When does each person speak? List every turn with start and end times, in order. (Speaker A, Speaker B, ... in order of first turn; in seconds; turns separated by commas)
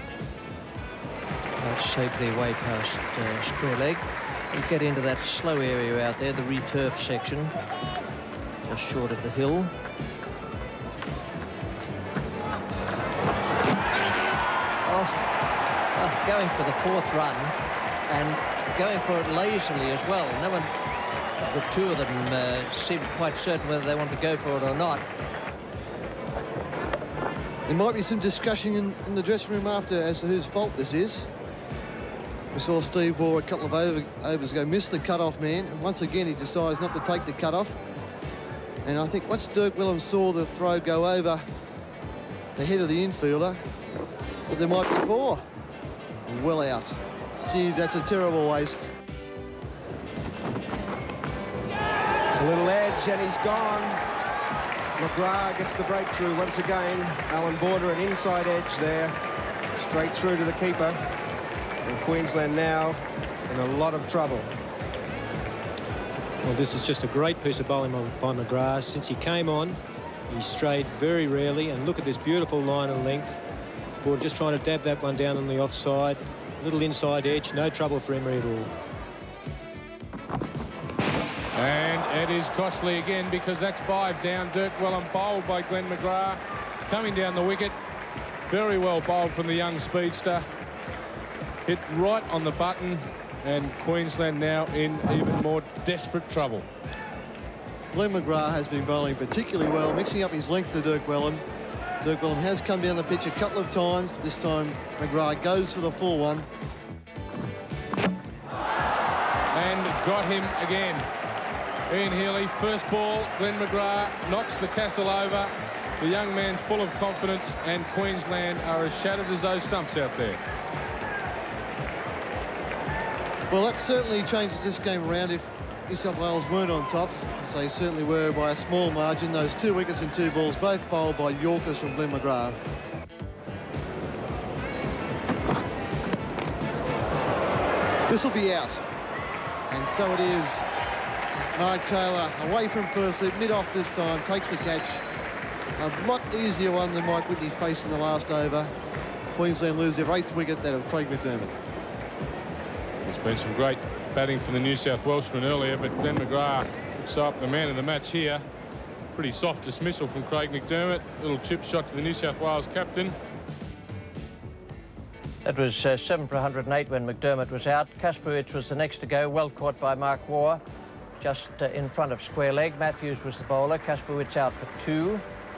Speaker A: 1.6-7.5, Speaker A: 8.7-9.7, Speaker A: 14.8-15.2, Speaker A: 15.9-17.6, Speaker A: 18.1-20.7, Speaker A: 21.4-25.1, Speaker B: 27.7-31.3, Speaker B: 32.5-37.8, Speaker B: 38.9-41.5, Speaker B: 42.6-43.6, Speaker B: 44.5-45.4, Speaker B: 46.2-48.9, Speaker C: 52.3-54.0, Speaker C: 55.0-59.2, Speaker C: 59.8-61.0, Speaker C: 61.8-64.5, Speaker D: 66.4-73.4, Speaker D: 74.0-78.7, Speaker E: 81.6-87.8, Speaker E: 88.5-90.5, Speaker E: 91.7-96.7, Speaker B: 97.9-101.4, Speaker B: 102.0-106.5, Speaker E: 109.5-111.1, Speaker E: 111.9-120.4, Speaker B: 123.5-132.6, Speaker B: 138.1-138.8, Speaker B: 139.7-140.7, Speaker B: 141.6-145.0, Speaker B: 145.8-148.7, Speaker B: 149.3-151.5, Speaker E: 153.1-158.4, Speaker E: 159.2-163.2, Speaker A: 165.4-170.6, Speaker A: 171.2-175.2